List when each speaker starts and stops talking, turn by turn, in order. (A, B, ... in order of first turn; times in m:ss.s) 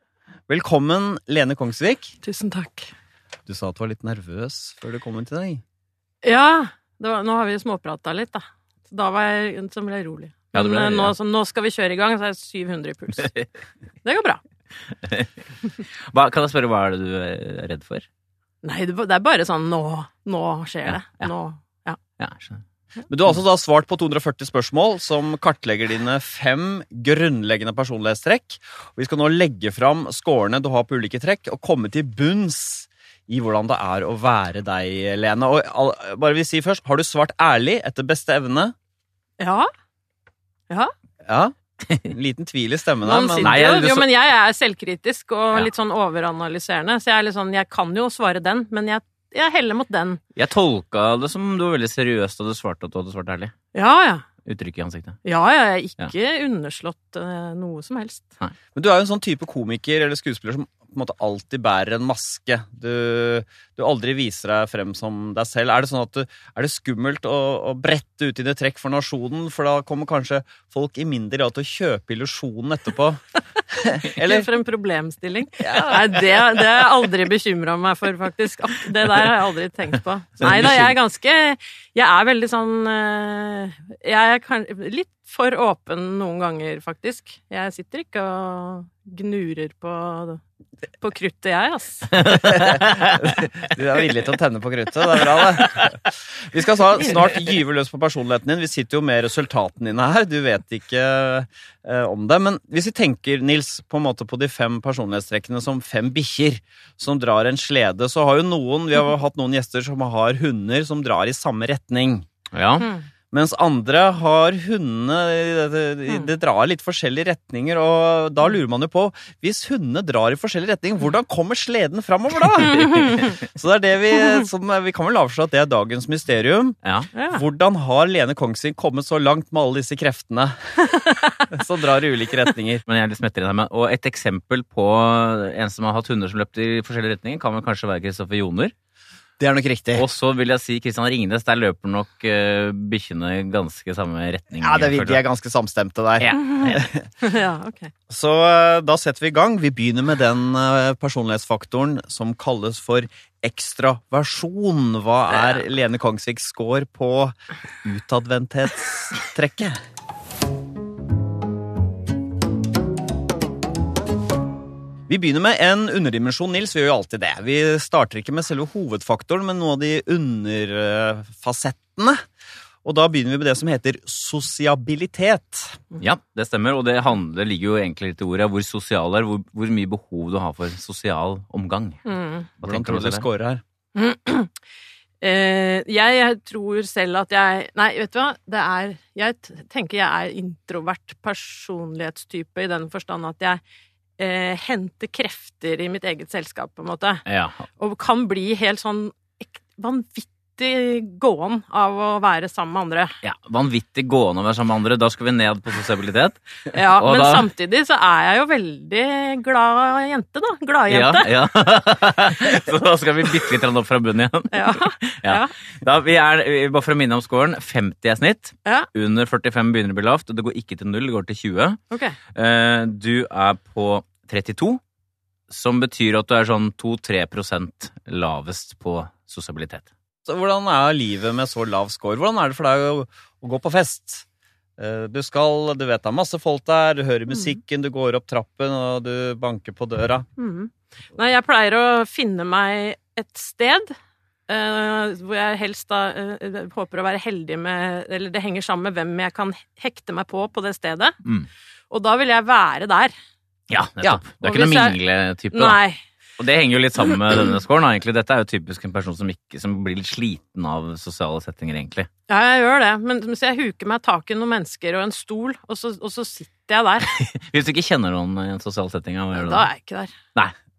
0:00.5-0:02.1 A
0:02.2-0:02.9 B
0:03.5-0:05.6 A
0:06.2-0:13.3 B
0:10.5-0:11.2 C
0:14.0-0:14.4 B
0:14.9-0:15.4 C
0:16.1-0:18.1 C
0:18.6-0:22.0 B
0:20.9-0:21.3 C
0:22.2-0:22.6 C
0:23.1-0:38.7 A
0:39.4-0:39.7 B
0:41.2-0:41.6 A
0:42.1-0:43.6 A
0:43.0-0:50.2 B
0:43.4-0:44.1 C
0:50.4-0:53.5 C
0:53.7-0:54.3 B
0:54.4-0:55.2 C
0:55.2-0:58.3 B
0:58.8-1:14.5 A
1:14.2-1:30.4 B
1:15.6-1:16.4 A
1:20.4-1:20.8 A
1:31.0-1:32.2 B
1:32.2-1:33.4 C
1:32.5-1:52.3 A
1:52.5-1:52.9 C
1:53.3-2:06.8 A
2:02.7-2:03.4 B
2:06.8-2:07.1 C
2:07.2-2:07.4 B
2:07.3-2:12.8 A
2:11.1-2:11.5 B
2:12.9-2:18.7 C
2:19.4-2:20.0 A
2:20.0-2:25.2 C
2:24.6-2:27.1 A
2:26.2-2:26.7 C
2:26.3-2:27.9 B
2:28.1-2:39.8 A
2:45.1-2:52.2 A
2:52.8-2:55.8 A
2:56.0-3:02.0 C
3:02.0-3:02.5 B
3:02.6-3:03.3 C
3:02.6-3:03.6 A
3:04.0-3:04.6 B
3:05.2-3:13.6 B
3:14.2-3:17.2 B
3:17.3-3:17.7 C
3:17.8-3:23.1 B
3:23.2-3:27.5 C
3:26.7-3:31.3 B
3:30.9-3:41.8 C
3:34.5-3:35.5 B
3:41.9-3:42.2 B
3:42.3-3:44.8 C
3:45.5-3:49.9 C
3:50.3-3:54.2 A
3:54.8-4:00.3 A
4:00.4-4:04.0 B
4:04.5-4:11.2 B
4:11.9-4:13.1 B
4:13.7-4:15.8 C
4:14.4-4:15.0 B
4:15.5-4:16.0 B
4:16.4-4:22.1 C
4:22.3-4:27.1 B
4:27.1-4:29.7 C
4:29.3-4:30.1 B